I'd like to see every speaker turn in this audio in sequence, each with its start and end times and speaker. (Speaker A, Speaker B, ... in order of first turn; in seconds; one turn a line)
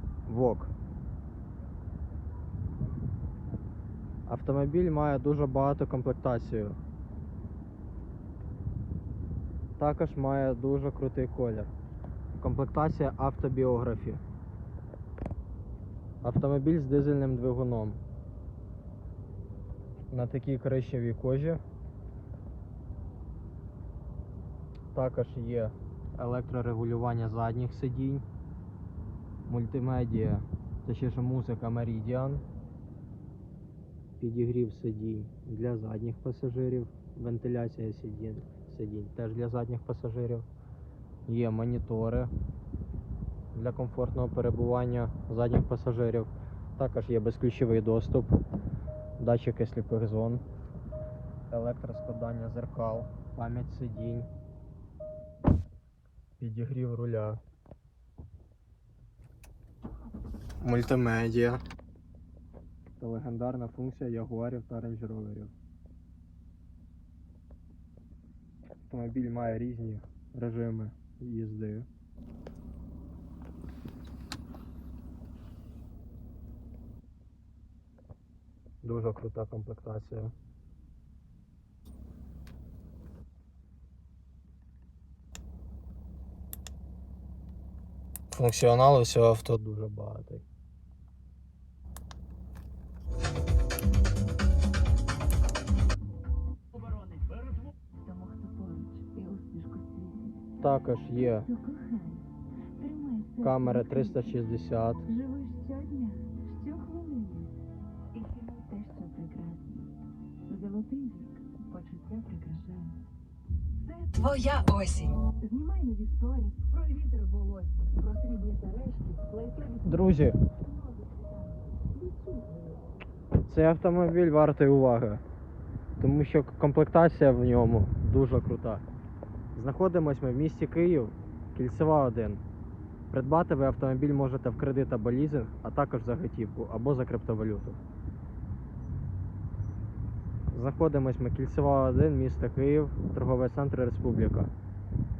Speaker A: 0.2-0.7
Speaker A: 4.2-6.8
Speaker A: 9.8-11.7
Speaker A: 12.3-14.2
Speaker A: 16.2-18.0
Speaker A: 20.1-21.6
Speaker A: 24.9-28.2
Speaker A: 29.4-32.4
Speaker A: 34.2-40.5
Speaker A: 41.2-42.3
Speaker A: 43.5-48.3
Speaker A: 49.2-50.4
Speaker A: 51.5-54.3
Speaker A: 56.4-57.4
Speaker A: 60.6-61.6
Speaker A: 63.0-65.5
Speaker A: 68.9-71.9
Speaker A: 78.8-80.3
Speaker A: 88.3-90.5
Speaker B: 97.9-100.5
Speaker A: 100.6-101.5
Speaker B: 101.2-104.3
Speaker A: 103.4-105.1
Speaker B: 105.0-107.6
Speaker B: 108.1-109.9
Speaker B: 110.5-113.0
Speaker B: 113.8-120.0
Speaker A: 119.8-120.4
Speaker B: 120.6-122.8
Speaker A: 123.5-125.2
Speaker A: 126.0-128.8
Speaker A: 129.5-132.4
Speaker A: 133.1-137.8
Speaker A: 140.5-144.5